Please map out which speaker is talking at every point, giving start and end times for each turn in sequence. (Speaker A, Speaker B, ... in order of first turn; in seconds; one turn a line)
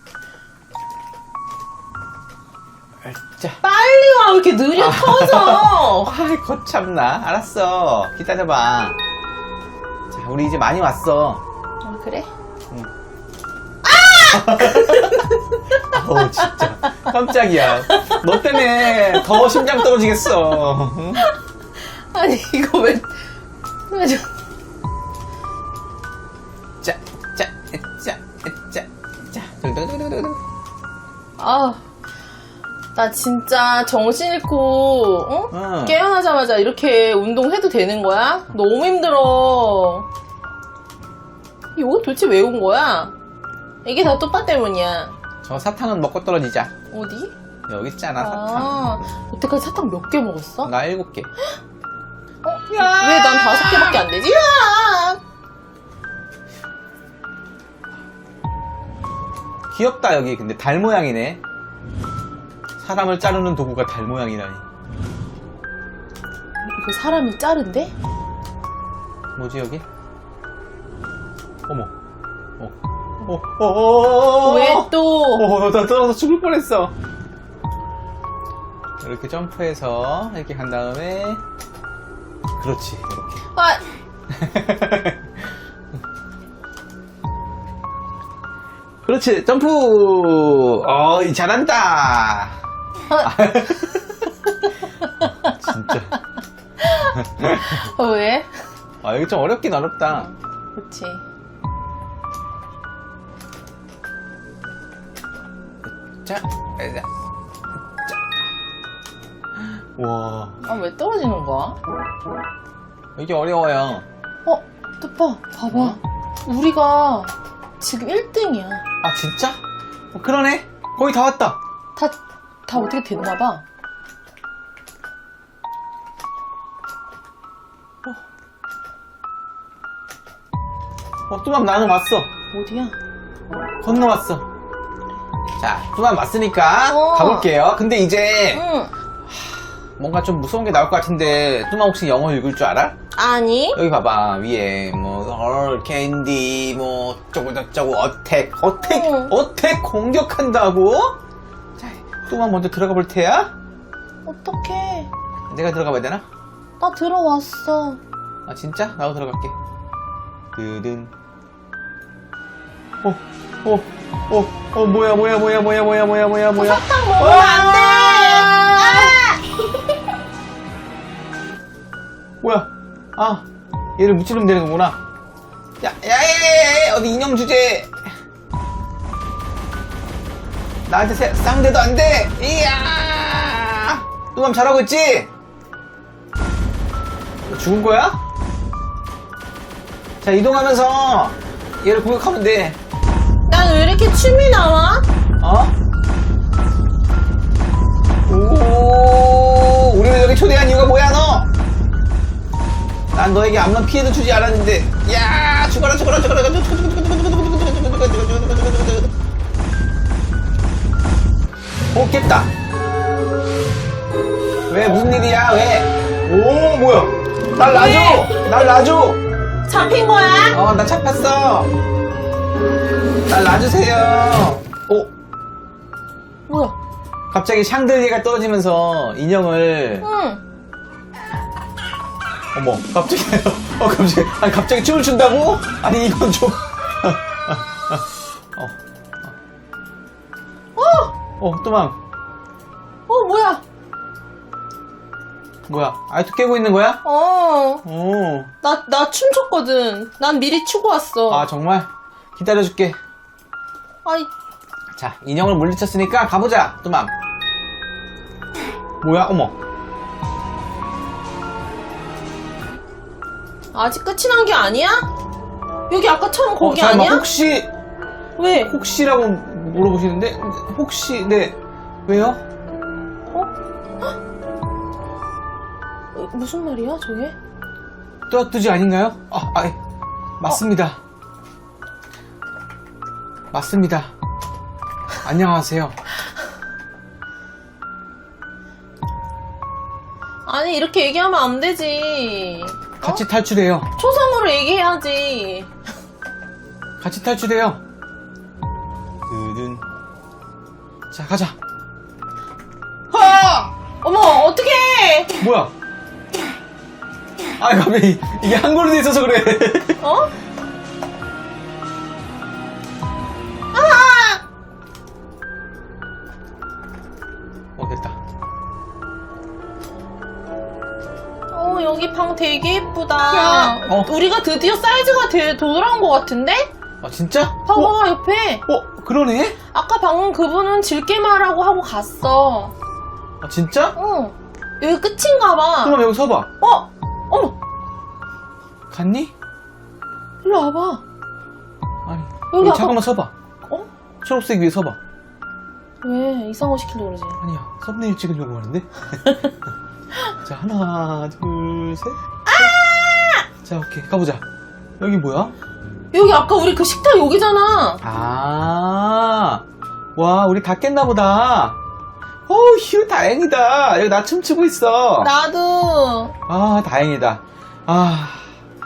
Speaker A: 3.0-3.6
Speaker B: 3.6-6.1
Speaker A: 4.8-9.0
Speaker A: 10.1-11.4
Speaker B: 11.8-12.3
Speaker B: 13.8-20.1
Speaker A: 14.3-15.1
Speaker A: 15.9-21.3
Speaker B: 21.2-23.2
Speaker B: 23.9-24.3
Speaker A: 26.8-30.4
Speaker B: 31.4-31.8
Speaker B: 33.0-40.1
Speaker A: 35.5-36.0
Speaker B: 41.8-43.1
Speaker B: 43.9-45.1
Speaker A: 45.4-46.7
Speaker B: 46.9-47.3
Speaker A: 47.7-49.1
Speaker B: 48.2-50.7
Speaker A: 50.6-51.3
Speaker B: 52.4-55.2
Speaker A: 52.7-54.0
Speaker A: 59.7-61.4
Speaker A: 62.8-64.6
Speaker B: 66.7-67.9
Speaker A: 69.4-69.8
Speaker A: 72.6-77.0
Speaker B: 74.4-75.5
Speaker A: 79.0-81.4
Speaker A: 82.6-83.5
Speaker B: 83.5-83.8
Speaker A: 84.3-85.2
Speaker A: 89.0-92.6
Speaker B: 93.1-94.0
Speaker A: 93.2-94.1
Speaker B: 95.0-95.5
Speaker A: 95.2-96.2
Speaker B: 96.8-98.6
Speaker A: 97.2-97.8
Speaker A: 99.0-100.3
Speaker B: 100.1-101.2
Speaker A: 105.8-107.1
Speaker A: 109.6-110.6
Speaker B: 110.6-111.8
Speaker A: 113.2-114.1
Speaker B: 114.5-118.8
Speaker A: 115.7-116.0
Speaker A: 119.0-119.6
Speaker A: 120.1-121.6
Speaker B: 122.0-123.6
Speaker A: 131.3-132.3
Speaker B: 132.5-133.0
Speaker A: 133.8-134.4
Speaker A: 135.6-138.6
Speaker B: 136.9-137.5
Speaker B: 138.5-138.9
Speaker A: 139.3-142.9
Speaker B: 143.1-143.8
Speaker A: 143.8-151.2
Speaker B: 148.8-149.3
Speaker A: 151.8-153.5
Speaker B: 154.3-155.1
Speaker A: 155.5-156.2
Speaker B: 156.8-158.0
Speaker A: 158.5-159.6
Speaker A: 160.6-161.1
Speaker A: 163.0-169.2
Speaker B: 166.6-169.4
Speaker A: 172.4-173.5
Speaker A: 174.0-175.0
Speaker A: 175.8-177.9
Speaker A: 180.9-185.3
Speaker A: 187.5-188.2
Speaker A: 190.2-192.8
Speaker B: 193.5-195.1
Speaker A: 195.4-195.8
Speaker A: 198.3-201.5
Speaker A: 203.1-209.1
Speaker A: 211.9-212.5
Speaker A: 214.7-219.2
Speaker B: 217.7-218.4
Speaker B: 219.7-220.6
Speaker A: 220.5-221.7
Speaker A: 223.3-225.1
Speaker B: 226.5-226.8
Speaker A: 227.3-230.1
Speaker B: 230.0-230.4
Speaker A: 232.6-238.8
Speaker B: 240.8-241.1
Speaker A: 241.4-242.0
Speaker B: 243.1-243.6
Speaker A: 245.7-247.0
Speaker B: 247.0-247.8
Speaker A: 247.8-248.5
Speaker B: 248.6-251.5
Speaker A: 251.3-253.0
Speaker B: 254.1-254.3
Speaker A: 254.9-257.1
Speaker A: 259.0-259.6
Speaker B: 263.7-265.1
Speaker B: 265.9-267.3
Speaker A: 266.6-267.7
Speaker B: 268.4-268.8
Speaker A: 268.6-272.4
Speaker B: 276.1-277.4
Speaker A: 278.3-279.8
Speaker A: 280.4-281.0
Speaker A: 283.5-284.1
Speaker A: 285.2-286.0
Speaker B: 290.4-293.2
Speaker A: 293.0-293.9
Speaker B: 294.0-295.7
Speaker A: 297.0-297.8
Speaker A: 299.3-299.8
Speaker A: 301.1-301.6
Speaker A: 303.1-303.7
Speaker B: 304.0-305.4
Speaker A: 305.4-305.7
Speaker A: 307.6-310.0
Speaker B: 310.0-310.4
Speaker B: 313.7-314.4
Speaker A: 317.8-318.2
Speaker B: 321.5-326.7
Speaker A: 323.3-324.1
Speaker A: 327.0-327.9
Speaker B: 327.7-328.6
Speaker A: 328.7-329.6
Speaker B: 329.7-332.7
Speaker A: 333.4-334.0
Speaker B: 334.0-336.0
Speaker A: 335.8-336.5
Speaker B: 336.6-337.6
Speaker A: 338.9-339.3
Speaker B: 340.4-341.0
Speaker A: 342.1-343.3
Speaker B: 342.5-343.0
Speaker A: 344.2-345.0
Speaker B: 346.0-347.4
Speaker A: 347.4-349.2
Speaker A: 350.4-352.2
Speaker B: 352.5-353.4
Speaker A: 353.6-354.4
Speaker A: 355.0-355.5
Speaker B: 356.1-358.0
Speaker A: 358.0-359.6
Speaker A: 360.2-361.8
Speaker A: 362.5-365.3
Speaker B: 365.2-366.4
Speaker A: 366.5-368.5